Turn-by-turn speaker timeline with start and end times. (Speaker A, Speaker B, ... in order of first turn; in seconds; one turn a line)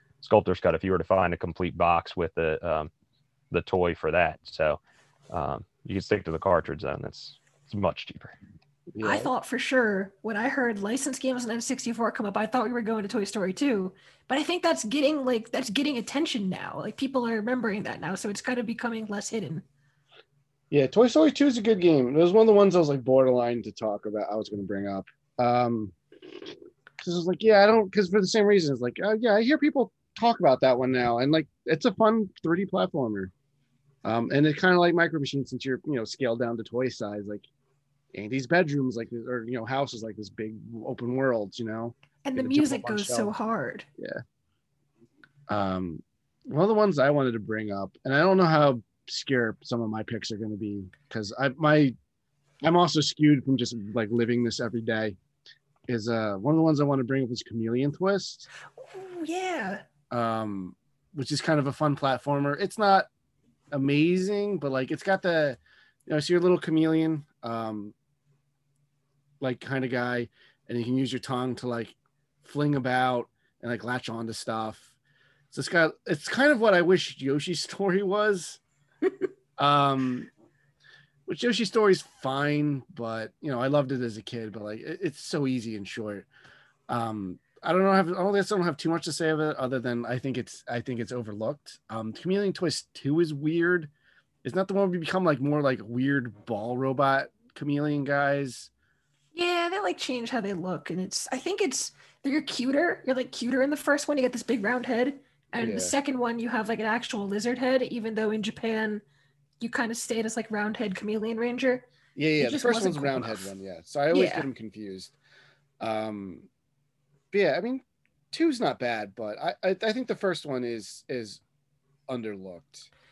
Speaker A: 0.2-2.9
Speaker A: 3.5-4.8
Speaker A: 5.3-8.3
Speaker B: 8.9-9.3
Speaker C: 9.0-19.6
Speaker B: 20.7-25.9
Speaker B: 27.0-33.3
Speaker B: 34.0-37.4
Speaker B: 38.1-43.3
Speaker C: 42.2-43.9
Speaker B: 45.5-51.9
Speaker B: 52.6-55.2
Speaker B: 55.9-58.5
Speaker C: 58.9-59.8
Speaker B: 60.1-63.1
Speaker B: 63.7-67.9
Speaker B: 69.4-74.9
Speaker B: 75.5-78.6
Speaker B: 79.6-80.3
Speaker B: 81.3-86.3
Speaker B: 86.9-93.9
Speaker B: 94.4-98.7
Speaker C: 99.3-109.0
Speaker B: 105.6-105.9
Speaker C: 109.6-111.8
Speaker B: 112.2-115.1
Speaker C: 112.4-113.5
Speaker C: 114.1-114.5
Speaker B: 115.8-116.5
Speaker B: 117.3-121.4
Speaker B: 122.1-122.9